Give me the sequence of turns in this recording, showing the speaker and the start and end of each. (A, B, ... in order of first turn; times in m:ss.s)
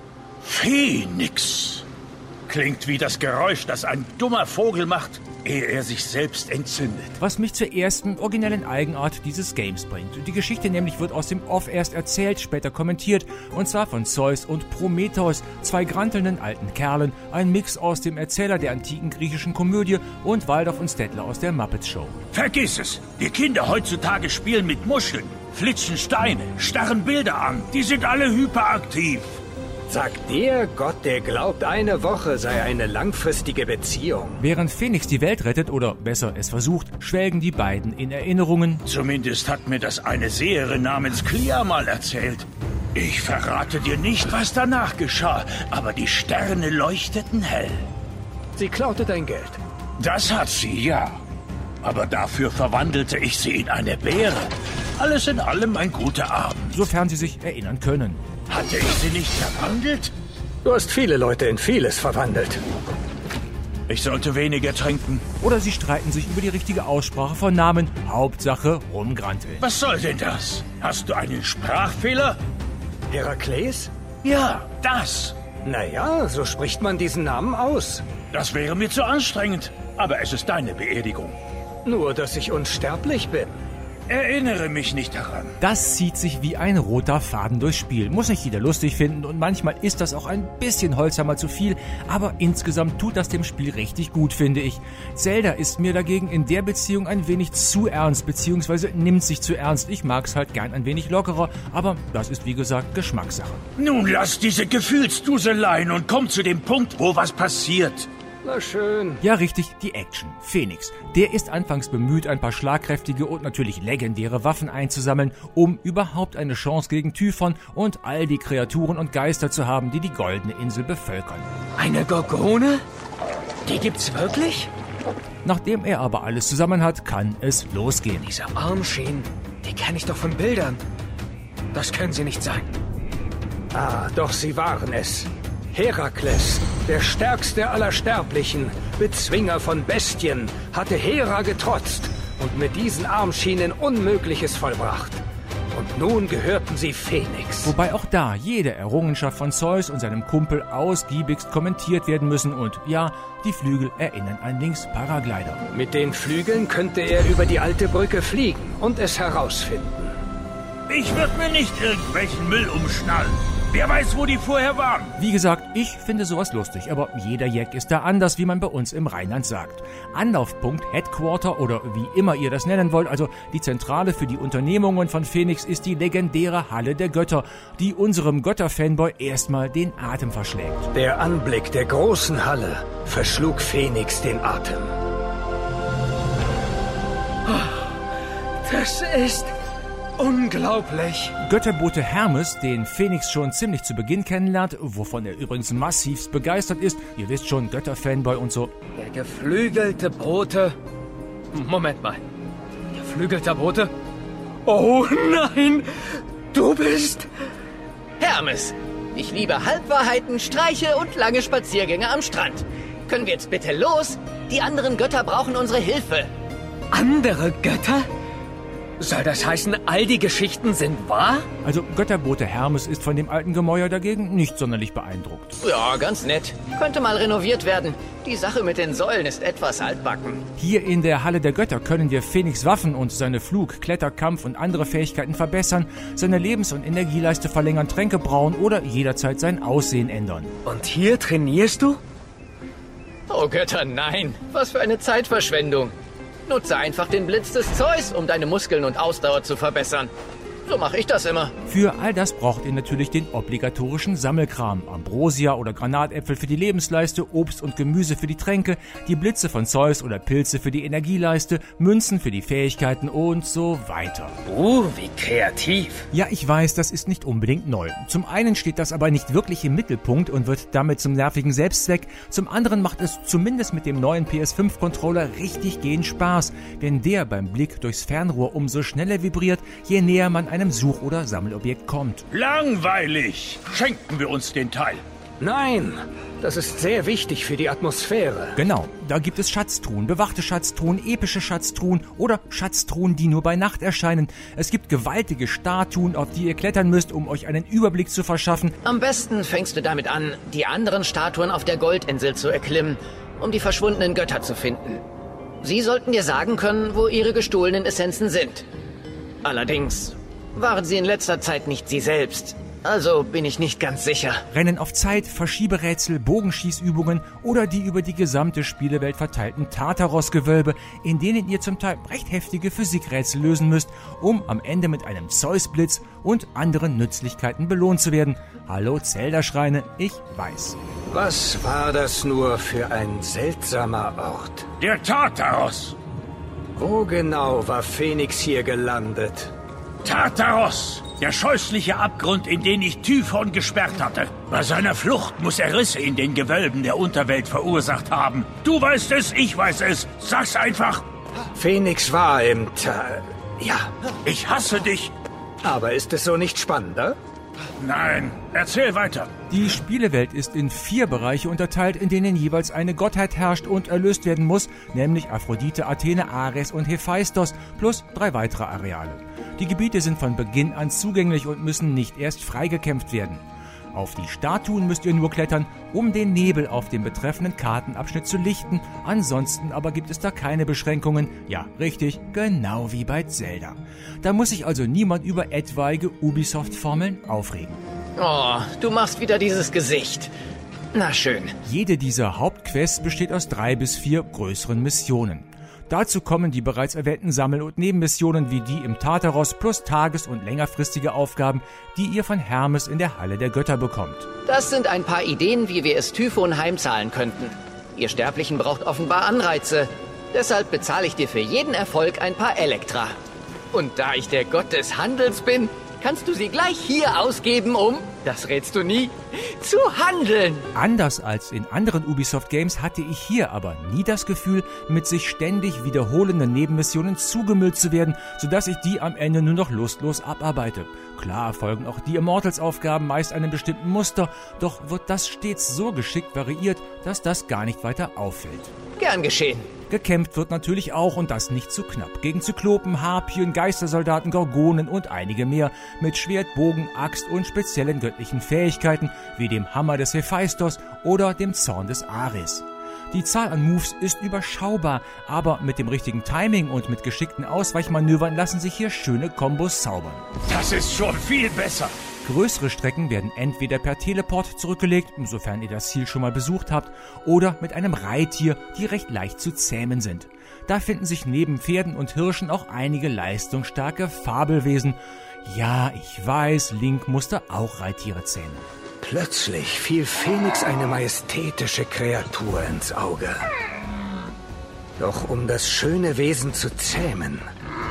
0:00.4-0:01.8 A
0:02.5-0:07.2 A
0:07.2-0:22.2 B
0:22.3-0:29.4 A
0:29.9-0:34.4 C
0:34.4-0:38.8 B
0:38.8-0:47.8 A
0:48.6-0:49.6 C
0:50.0-0:51.2 A
0:51.8-0:56.8 A
0:56.7-0:58.2 B
0:58.5-1:00.1 A
1:00.6-1:02.6 C
1:03.9-1:05.2 A
1:05.4-1:09.6 B
1:09.6-1:12.4 A
1:13.1-1:13.9 C
1:14.2-1:15.4 A
1:15.6-1:18.0 C
1:18.3-1:21.4 A
1:21.8-1:23.6 C
1:24.1-1:25.6 A
1:25.6-1:43.6 B
1:43.8-1:48.1 A
1:48.4-1:49.2 C
1:49.2-2:01.5 B
2:01.8-2:02.8 D
2:03.6-2:04.7 D
2:05.4-2:08.3 B
2:08.3-2:10.8 D
2:11.7-2:12.6 D
2:13.7-2:27.7 C
2:27.6-2:35.6 B
2:35.7-2:40.2 C
2:40.9-2:45.1 A
2:45.2-3:00.9 B
3:00.9-3:04.9 C
3:07.4-3:07.9 D
3:08.6-3:09.5 D
3:10.2-3:11.3 D
3:11.4-3:18.7 B
3:19.0-3:20.8 D
3:21.5-3:22.2 D
3:22.9-3:23.9 D
3:24.6-3:27.3 D
3:28.2-3:36.3 E
3:36.9-3:38.1 D
3:39.0-3:41.5 D
3:41.6-3:45.6 B
3:45.6-3:50.4 E
3:50.6-4:00.5 B
4:00.6-4:02.0 D
4:03.3-4:05.9 E
4:06.5-4:10.1 E
4:10.6-4:11.5 E
4:11.6-4:24.4 B
4:24.4-4:26.0 D
4:26.1-4:42.2 B
4:42.3-4:45.0 A
4:45.4-4:48.6 C
4:48.6-4:58.8 B
4:58.8-5:05.0 E
5:05.6-5:08.6 E
5:09.4-5:14.4 E
5:14.5-5:30.8 B
5:31.1-5:34.7 C
5:34.8-5:36.0 A
5:36.8-5:39.5 C
5:40.0-5:51.1 A
5:51.5-5:53.9 C
5:54.2-5:55.1 A
5:55.6-5:57.2 C
5:57.8-5:59.3 A
5:59.5-6:13.4 B
6:13.9-6:27.8 B
6:28.2-6:30.3 E
6:30.9-6:31.5 E
6:31.6-6:44.3 B
6:44.4-6:53.2 E
6:53.7-7:00.7 E
7:00.7-7:18.7 B
7:19.0-7:19.7 E
7:19.9-7:40.2 B
7:40.4-7:41.9 A
7:42.2-7:58.6 B
7:59.0-8:03.4 C
8:05.0-8:07.4 C